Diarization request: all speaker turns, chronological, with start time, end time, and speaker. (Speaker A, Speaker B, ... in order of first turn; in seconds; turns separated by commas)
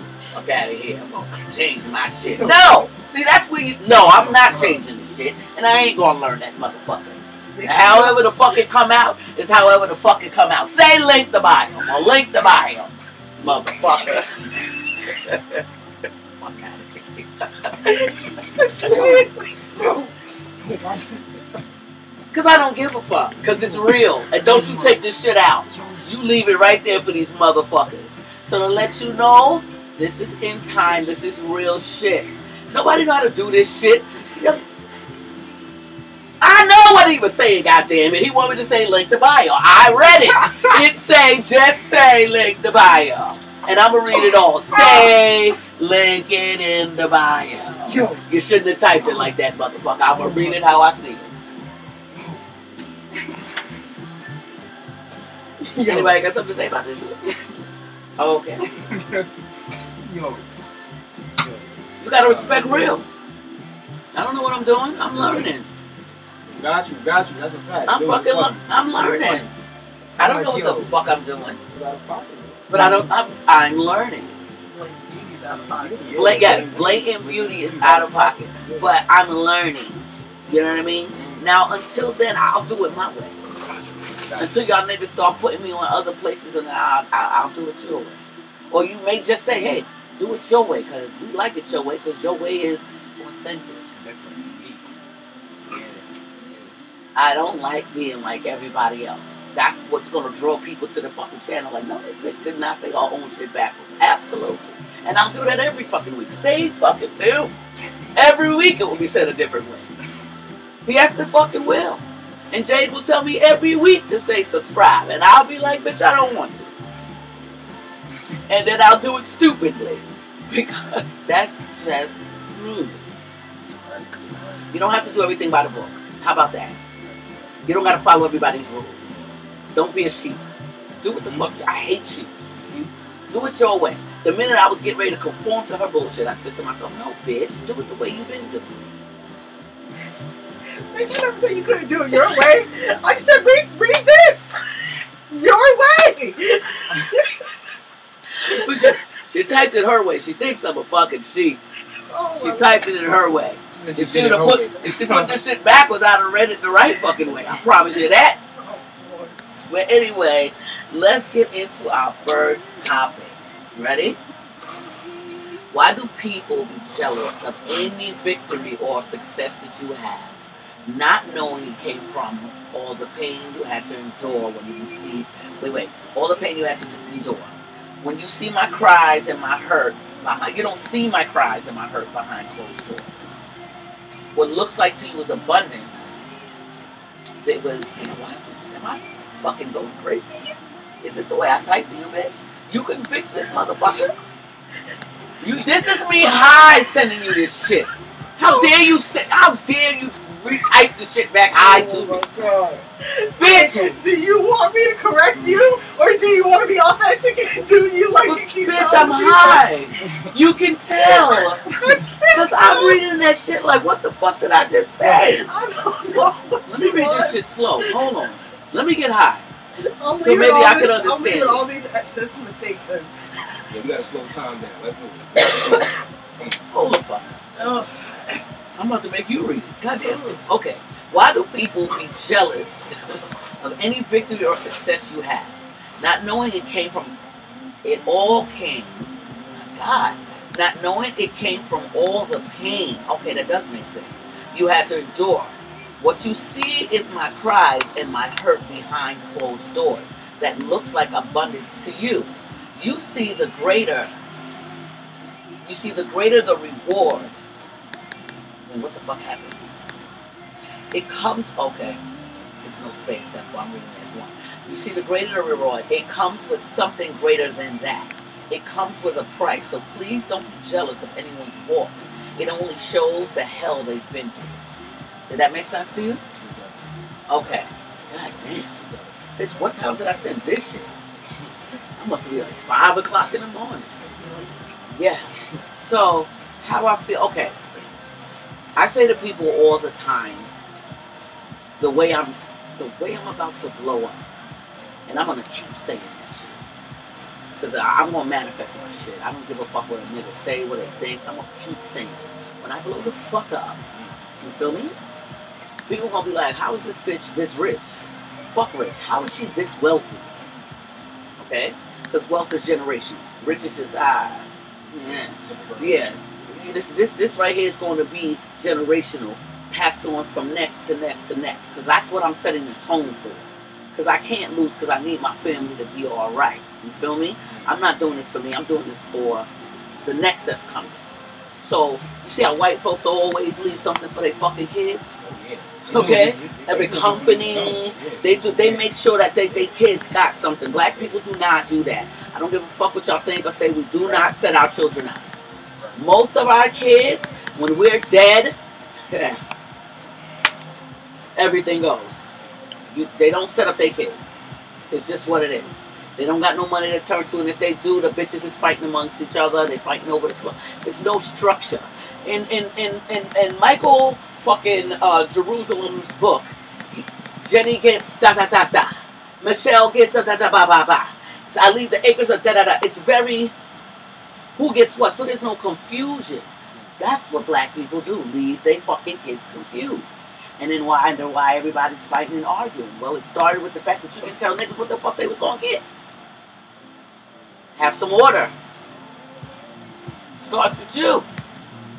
Speaker A: 0.3-15.6, Speaker B: 2.4-2.8, Speaker B: 4.0-4.8, Speaker C: 7.8-8.1, Speaker A: 16.4-18.1, Speaker C: 17.9-19.3, Speaker A: 18.8-19.3, Speaker B: 18.8-21.4, Speaker A: 22.3-34.6, Speaker B: 23.6-25.1, Speaker B: 25.7-26.1, Speaker A: 36.4-51.4, Speaker B: 40.2-40.8, Speaker B: 44.8-45.1, Speaker B: 47.8-48.2, Speaker B: 49.0-49.3, Speaker B: 50.2-50.6, Speaker B: 52.1-52.4, Speaker B: 55.6-56.2, Speaker A: 55.8-57.4, Speaker A: 58.2-58.7, Speaker B: 58.6-60.5, Speaker B: 61.4-62.9, Speaker A: 62.0-63.1, Speaker A: 64.1-65.7, Speaker B: 65.1-65.5, Speaker B: 66.5-69.4, Speaker A: 67.9-69.5, Speaker B: 70.2-70.9, Speaker A: 70.2-71.6, Speaker B: 71.7-73.1, Speaker A: 72.7-74.4, Speaker C: 74.7-76.7, Speaker B: 75.7-78.9, Speaker A: 76.1-83.4, Speaker B: 81.1-81.4, Speaker B: 83.5-84.6, Speaker A: 84.4-88.2, Speaker A: 88.7-93.8, Speaker B: 94.0-94.9, Speaker B: 95.7-96.7, Speaker A: 97.2-107.5, Speaker A: 108.2-109.9, Speaker A: 110.8-116.7, Speaker A: 118.5-123.0, Speaker B: 123.8-124.7, Speaker A: 124.7-126.8, Speaker B: 127.0-127.5, Speaker A: 127.7-129.1, Speaker A: 129.7-130.4, Speaker A: 131.0-132.5, Speaker B: 131.2-131.5, Speaker A: 133.3-138.9, Speaker C: 140.7-147.3, Speaker A: 148.5-151.6, Speaker C: 148.5-148.9, Speaker C: 152.1-152.8, Speaker A: 152.3-158.4, Speaker B: 153.8-155.4, Speaker C: 158.6-159.4, Speaker A: 159.7-164.2, Speaker A: 165.7-183.1, Speaker A: 184.3-186.2, Speaker A: 187.4-190.4, Speaker A: 191.0-194.1, Speaker A: 195.4-202.2, Speaker C: 195.9-196.2, Speaker C: 198.4-198.8, Speaker C: 201.5-209.7, Speaker A: 203.4-204.0, Speaker A: 208.2-211.6, Speaker B: 210.0-210.3, Speaker C: 211.0-213.0, Speaker B: 211.7-212.0, Speaker A: 212.3-215.5, Speaker B: 215.0-215.4, Speaker C: 215.4-218.0, Speaker A: 216.7-219.4, Speaker C: 219.8-223.2, Speaker A: 220.1-221.6, Speaker B: 223.7-225.9, Speaker A: 226.7-227.4, Speaker C: 227.6-228.4, Speaker A: 228.8-237.2, Speaker C: 230.0-230.4, Speaker A: 237.8-254.1, Speaker A: 255.6-257.4, Speaker A: 258.7-259.6, Speaker A: 260.9-262.0, Speaker A: 262.6-274.6, Speaker A: 275.3-276.2, Speaker B: 276.4-276.8, Speaker A: 277.3-278.7, Speaker B: 277.3-277.7, Speaker B: 278.7-279.1, Speaker A: 279.4-280.9, Speaker A: 282.0-283.9, Speaker A: 284.9-287.9, Speaker A: 288.8-290.5, Speaker A: 291.8-294.2, Speaker A: 295.1-296.6, Speaker A: 297.6-303.8, Speaker A: 304.4-305.0, Speaker A: 305.9-310.3, Speaker A: 311.4-329.5, Speaker B: 315.0-316.1, Speaker B: 327.5-327.7, Speaker A: 330.0-331.0, Speaker A: 331.6-335.2, Speaker B: 335.2-338.9, Speaker A: 335.9-345.3, Speaker B: 344.0-344.3, Speaker B: 345.8-346.0, Speaker A: 346.0-348.6, Speaker A: 349.1-349.4, Speaker A: 351.4-352.2, Speaker A: 352.9-354.2, Speaker A: 354.9-373.5, Speaker A: 374.6-376.5, Speaker A: 377.0-385.8, Speaker A: 387.8-388.5, Speaker A: 390.4-391.2